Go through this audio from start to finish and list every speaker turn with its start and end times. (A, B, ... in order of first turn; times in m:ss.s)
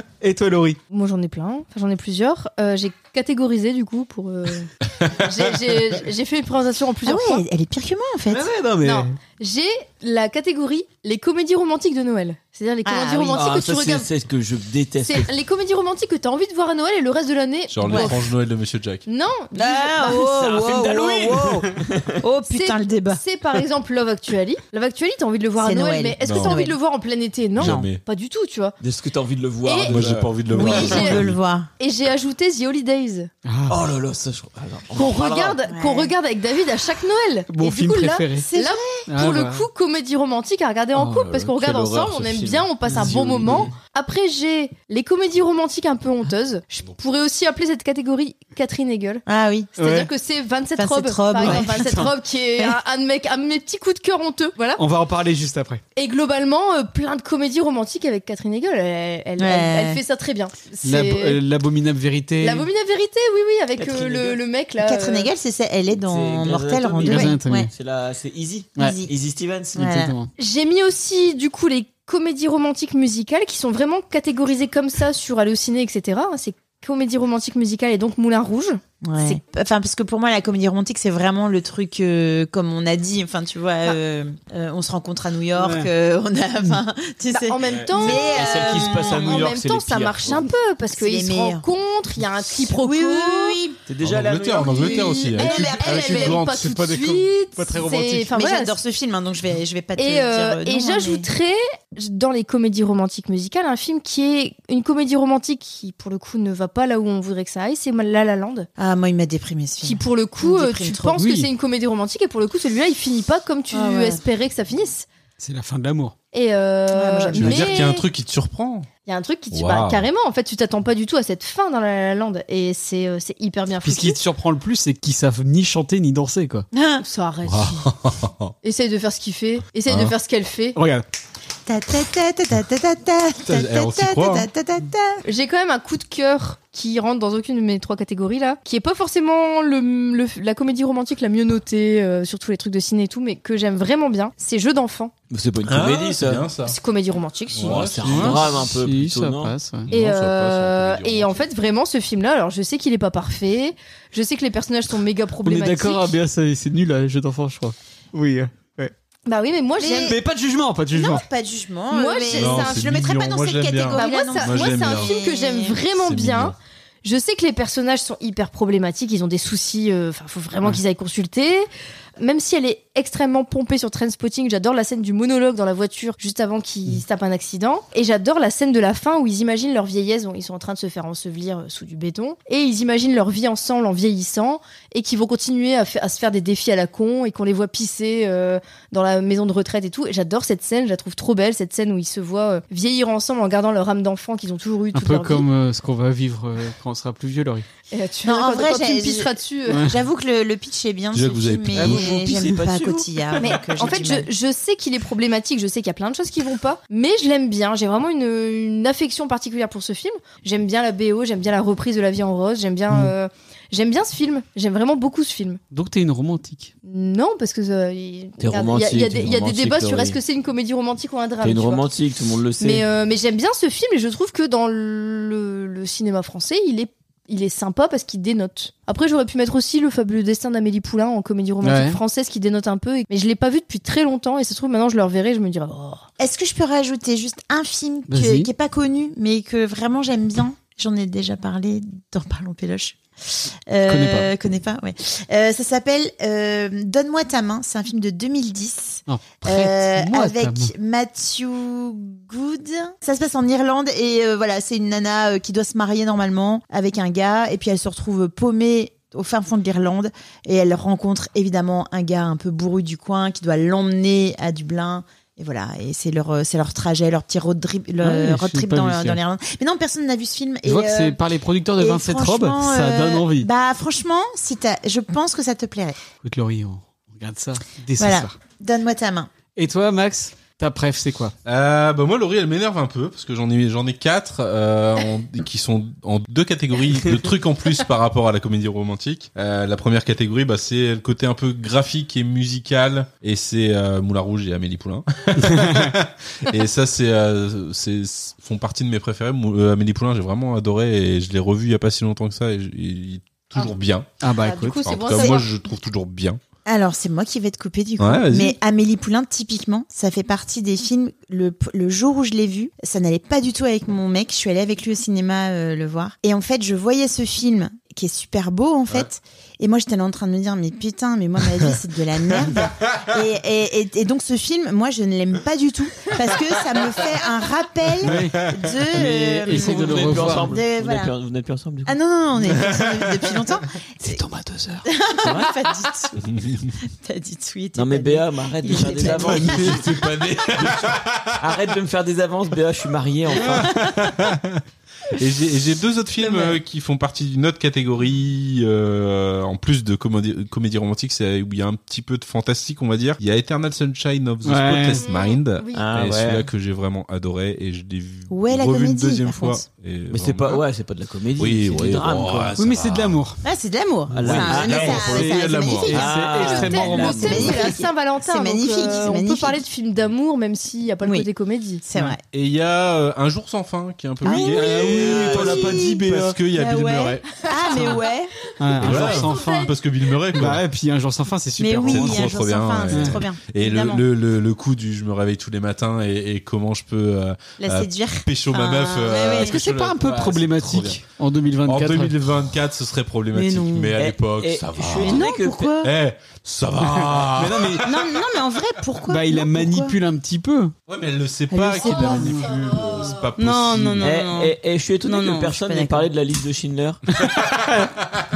0:00.2-0:00.8 A
0:00.9-0:07.4 B
0:07.1-0:08.5 C
0:08.3-0:09.1 A
0:08.8-0:14.1 B
0:12.9-0:13.5 C
0:13.4-0:15.3 D
0:15.0-0:18.2 B
0:17.7-0:19.0 E
0:17.8-0:18.2 C
0:19.1-0:20.2 B
0:19.6-0:23.2 C
0:20.0-0:22.2 D
0:22.5-0:28.8 B
0:25.6-0:26.8 C
0:26.2-0:26.6 E
0:27.6-0:28.0 E
0:27.6-0:27.9 C
0:28.8-0:30.7 D
0:29.6-0:30.0 B
0:29.9-0:31.4 E
0:30.5-0:31.7 C
0:30.5-0:31.2 B
0:31.8-0:33.3 B
0:33.4-0:33.8 A
0:33.7-0:35.6 D
0:35.0-0:49.2 B
0:35.7-0:36.1 C
0:37.5-0:38.5 A
0:38.4-0:39.1 C
0:39.1-0:39.7 A
0:41.0-0:43.7 A
0:41.4-0:41.8 E
0:42.9-0:43.7 D
0:49.3-0:50.0 C
0:49.8-0:50.1 A
0:49.8-0:54.8 B
0:50.8-0:52.0 C
0:51.4-0:52.1 A
0:54.8-0:55.8 A
0:56.0-1:01.4 B
0:59.4-1:00.0 C
1:00.8-1:02.7 A
1:02.4-1:05.3 B
1:03.8-1:04.4 D
1:04.8-1:07.7 C
1:05.9-1:09.8 D
1:07.0-1:07.7 A
1:08.8-1:09.1 C
1:09.8-1:10.1 C
1:09.8-1:10.3 A
1:10.4-1:19.4 B
1:19.0-1:29.5 C
1:25.6-1:25.9 A
1:27.3-1:33.6 B
1:27.7-1:30.5 D
1:30.9-1:31.6 C
1:32.6-1:33.8 C
1:33.9-1:35.0 D
1:34.0-1:37.3 E
1:34.6-1:38.8 B
1:34.6-1:36.4 C
1:37.6-1:38.3 A
1:38.3-1:41.3 C
1:40.0-1:48.7 B
1:48.8-1:51.1 C
1:49.8-1:55.1 B
1:51.1-1:51.5 A
1:53.7-1:54.2 C
1:55.4-1:56.2 A
1:56.3-1:58.0 B
1:56.9-1:57.8 C
1:57.4-1:58.9 E
1:59.0-2:04.2 B
1:59.5-2:00.1 E
2:03.8-2:06.7 A
2:06.7-2:07.0 C
2:07.0-2:07.9 B
2:07.4-2:08.5 E
2:08.6-2:10.8 B
2:09.9-2:10.1 E
2:10.8-2:11.0 A
2:11.7-2:15.2 C
2:13.5-2:14.5 E
2:15.3-2:25.1 B
2:25.3-2:26.5 D
2:25.6-2:26.8 E
2:26.6-2:27.8 B
2:27.5-2:28.4 E
2:27.6-2:29.5 D
2:28.0-2:29.9 A
2:29.9-2:31.4 E
2:29.9-2:36.2 B
2:35.4-2:38.9 A
2:39.3-2:40.2 B
2:39.8-2:40.2 C
2:40.0-2:41.2 A
2:40.9-2:45.8 C
2:41.9-2:42.8 B
2:42.3-2:45.2 E
2:43.9-2:51.7 B
2:46.0-2:46.6 E
2:52.2-3:15.5 B
3:14.9-3:17.7 A
3:17.9-3:19.9 B
3:18.2-3:24.3 C
3:21.1-3:22.0 E
3:21.8-3:23.5 D
3:23.4-3:35.6 B
3:35.7-3:36.7 A
3:36.8-3:41.9 B
3:38.4-3:40.2 D
3:41.4-3:42.9 D
3:42.6-3:56.1 B
3:51.6-3:52.0 A
3:56.2-4:31.2 C
3:58.1-3:58.5 A
4:03.9-4:04.3 A
4:09.1-4:10.7 A
4:28.0-4:29.2 A
4:30.6-4:33.5 A
4:31.8-4:36.0 C
4:36.2-4:38.4 A
4:38.0-4:39.3 C
4:39.6-4:41.3 A
4:41.4-5:04.2 E
4:55.5-4:55.9 A
5:04.2-5:04.9 A
5:04.4-5:05.5 B
5:04.8-5:06.4 E
5:06.7-5:31.1 C
5:08.0-5:08.6 E
5:28.0-5:30.6 A
5:29.0-5:32.0 D
5:31.9-5:34.2 C
5:34.0-5:34.9 A
5:34.9-5:36.2 C
5:35.2-5:35.5 D
5:36.2-5:36.7 E
5:37.0-5:39.9 C
5:37.8-5:39.9 D
5:39.0-5:39.8 A
5:39.3-5:41.4 E
5:40.6-5:43.8 D
5:43.5-5:44.4 E
5:45.1-6:00.6 E
5:46.3-5:46.6 C
5:54.4-5:55.0 A
5:55.0-5:55.8 B
5:55.7-5:56.5 D
5:58.3-5:59.6 C
6:00.1-6:02.6 D
6:01.4-6:03.2 E
6:02.6-6:03.4 A
6:03.4-6:09.6 C
6:04.1-6:05.2 D
6:04.2-6:06.0 E
6:04.9-6:07.7 A
6:05.9-6:07.5 D
6:06.4-6:11.8 B
6:11.0-6:11.3 C
6:11.8-6:12.2 C
6:12.3-6:18.0 E
6:14.2-6:18.3 C
6:14.2-6:16.4 A
6:15.0-6:15.5 D
6:18.6-6:19.7 A
6:18.8-6:20.6 E
6:18.9-6:19.7 B
6:20.3-6:23.2 A
6:21.6-6:24.0 C
6:21.8-6:31.0 E
6:27.6-6:29.6 C
6:29.2-6:32.2 A
6:31.7-6:35.3 E
6:33.3-6:34.0 C
6:34.0-6:35.7 D
6:35.0-6:35.9 C
6:35.8-6:37.9 E
6:36.9-6:37.9 A
6:37.8-6:40.0 C
6:39.1-6:40.8 A
6:40.9-6:44.2 E
6:41.5-6:42.5 C
6:41.8-6:42.4 A
6:43.4-6:46.1 C
6:44.0-6:47.0 D
6:47.4-6:48.0 A